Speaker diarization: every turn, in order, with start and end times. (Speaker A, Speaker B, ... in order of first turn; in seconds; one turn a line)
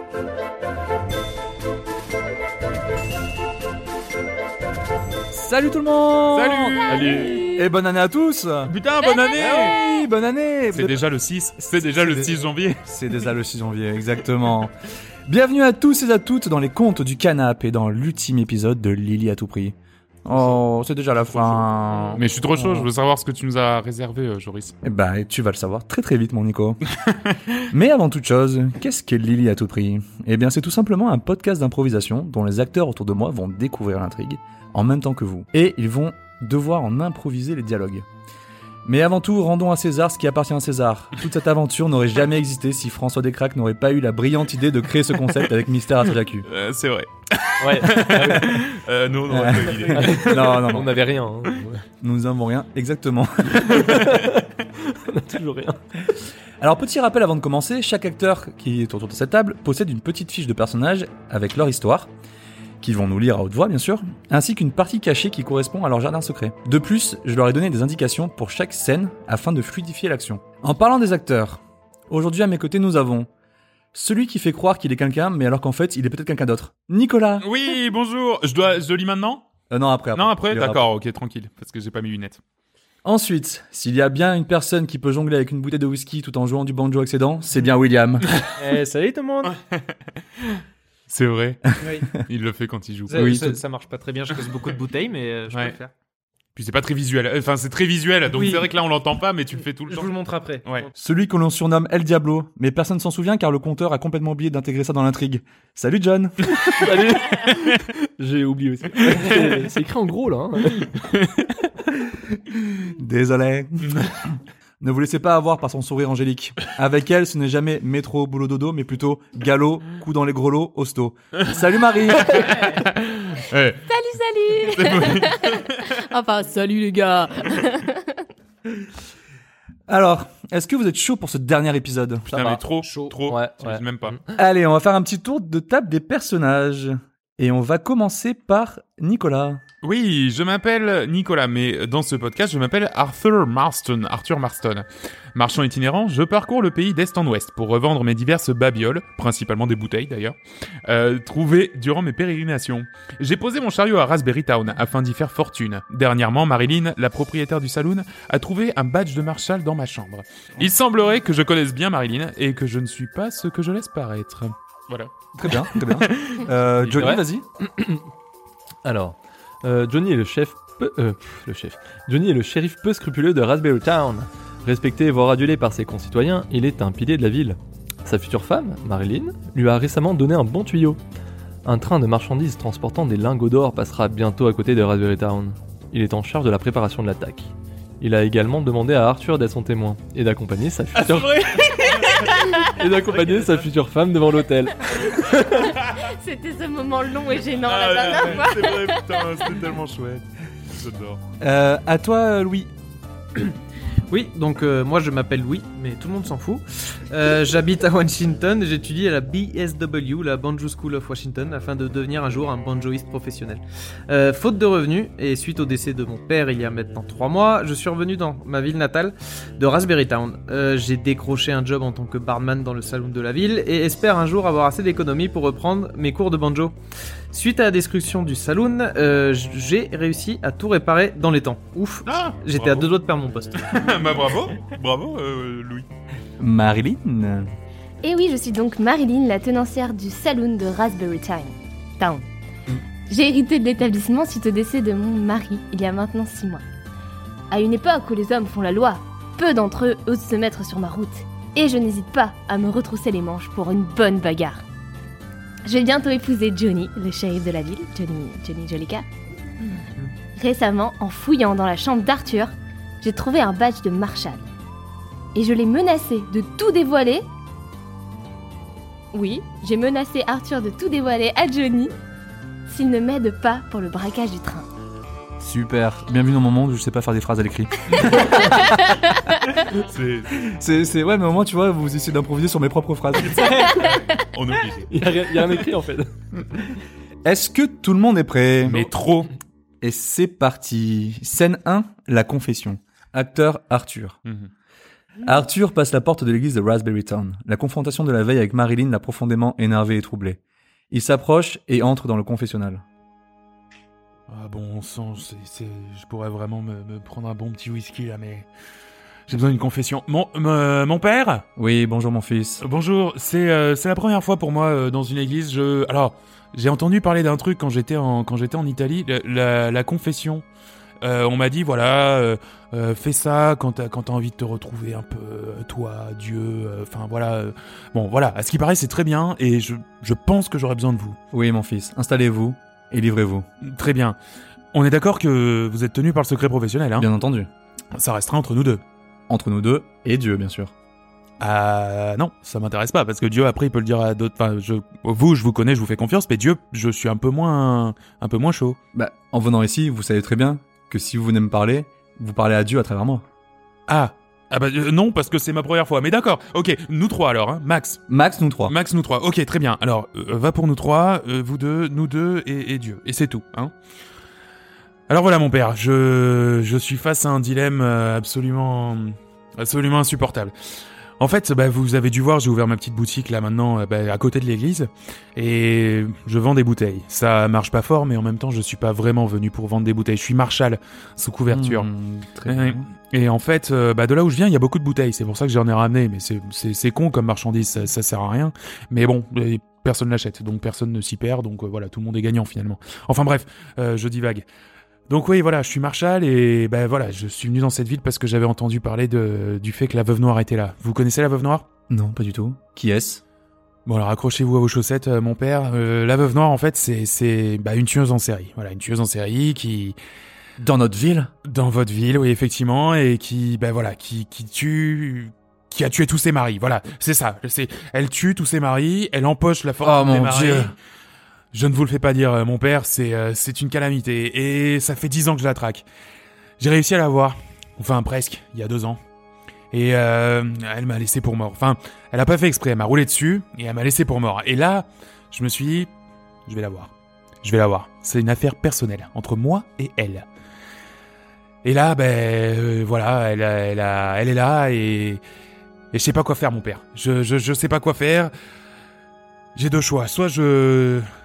Speaker A: 5.3-6.9
Speaker B: 6.3-7.5
Speaker C: 6.9-7.4
Speaker D: 7.0-7.7
Speaker A: 7.5-8.7
Speaker B: 8.7-9.8
Speaker D: 9.0-9.8
Speaker A: 9.4-11.0
Speaker B: 10.7-12.8
Speaker A: 11.7-14.7
Speaker A: 15.3-22.9
Speaker B: 22.1-24.8
Speaker A: 24.8-26.8
Speaker A: 27.7-38.1
Speaker A: 38.9-46.5
Speaker B: 46.5-50.7
Speaker C: 47.6-48.6
Speaker A: 49.3-51.0
Speaker C: 49.9-51.8
Speaker A: 52.0-54.0
Speaker C: 53.6-55.8
Speaker B: 53.8-54.1
Speaker A: 56.6-62.1
Speaker A: 62.8-73.3
Speaker A: 73.9-77.5
Speaker B: 77.4-79.5
Speaker A: 79.7-80.8
Speaker B: 80.1-82.4
Speaker A: 83.0-88.3
Speaker E: 88.6-89.5
Speaker B: 89.5-89.8
Speaker B: 90.4-93.5
Speaker E: 91.8-92.1
Speaker E: 93.1-95.9
Speaker A: 93.2-93.5
Speaker B: 95.5-95.8
Speaker B: 96.6-100.1
Speaker E: 98.3-98.7
Speaker E: 99.9-100.9
Speaker A: 101.0-106.6
Speaker C: 106.7-110.9
Speaker A: 112.5-122.7
Speaker B: 113.8-114.1
Speaker B: 122.3-123.9
Speaker D: 123.9-128.2
Speaker B: 124.6-125.9
Speaker A: 129.9-132.3
Speaker B: 132.3-134.2
Speaker C: 132.3-132.6
Speaker E: 132.8-133.1
Speaker C: 133.3-134.2
Speaker A: 134.3-139.6
Speaker B: 139.8-166.5
Speaker A: 165.3-167.4
Speaker C: 167.0-168.1
Speaker C: 168.8-181.0
Speaker C: 181.7-191.8
Speaker B: 191.0-192.3
Speaker D: 192.1-192.6
Speaker C: 192.5-195.7
Speaker D: 195.1-199.5
Speaker B: 197.7-201.2
Speaker A: 201.4-202.7
Speaker E: 204.1-226.8
Speaker E: 227.3-234.0
Speaker B: 232.1-232.9
Speaker B: 233.7-235.9
Speaker A: 236.4-237.5
Speaker D: 238.0-242.3
Speaker D: 243.1-246.6
Speaker D: 247.5-254.6
Speaker D: 255.7-259.1
Speaker D: 260.4-264.5
Speaker D: 265.4-267.2
Speaker D: 269.1-271.9
Speaker D: 272.7-274.7
Speaker A: 275.4-278.6
Speaker D: 278.6-279.4
Speaker B: 279.7-280.5
Speaker A: 280.4-283.8
Speaker D: 283.7-284.0
Speaker B: 283.8-285.1
Speaker C: 284.9-286.1
Speaker A: 287.2-288.9
Speaker B: 288.6-289.3
Speaker A: 289.8-294.2
Speaker A: 295.2-300.4
Speaker A: 300.9-302.8
Speaker B: 304.3-308.5
Speaker B: 309.3-311.4
Speaker A: 311.6-312.6
Speaker B: 312.6-320.4
Speaker B: 321.0-331.2
Speaker A: 331.3-333.5
Speaker B: 333.6-334.2
Speaker B: 334.7-337.1
Speaker A: 337.0-337.5
Speaker B: 337.9-338.8
Speaker A: 339.3-340.7
Speaker B: 341.4-348.8
Speaker A: 348.9-353.2
Speaker B: 353.9-358.0
Speaker A: 358.1-358.8
Speaker B: 358.7-363.7
Speaker B: 365.1-370.5
Speaker B: 371.2-381.9
Speaker A: 381.5-382.9
Speaker B: 382.5-394.4
Speaker B: 395.1-401.7
Speaker A: 401.9-403.2
Speaker B: 403.9-410.0
Speaker A: 410.6-411.3
Speaker B: 411.5-420.8
Speaker A: 419.8-420.7
Speaker B: 421.5-425.9
Speaker B: 426.6-429.0
Speaker B: 429.7-435.9
Speaker B: 436.5-436.9
Speaker B: 437.4-440.3
Speaker B: 441.6-445.2
Speaker B: 445.9-448.3
Speaker B: 449.6-451.1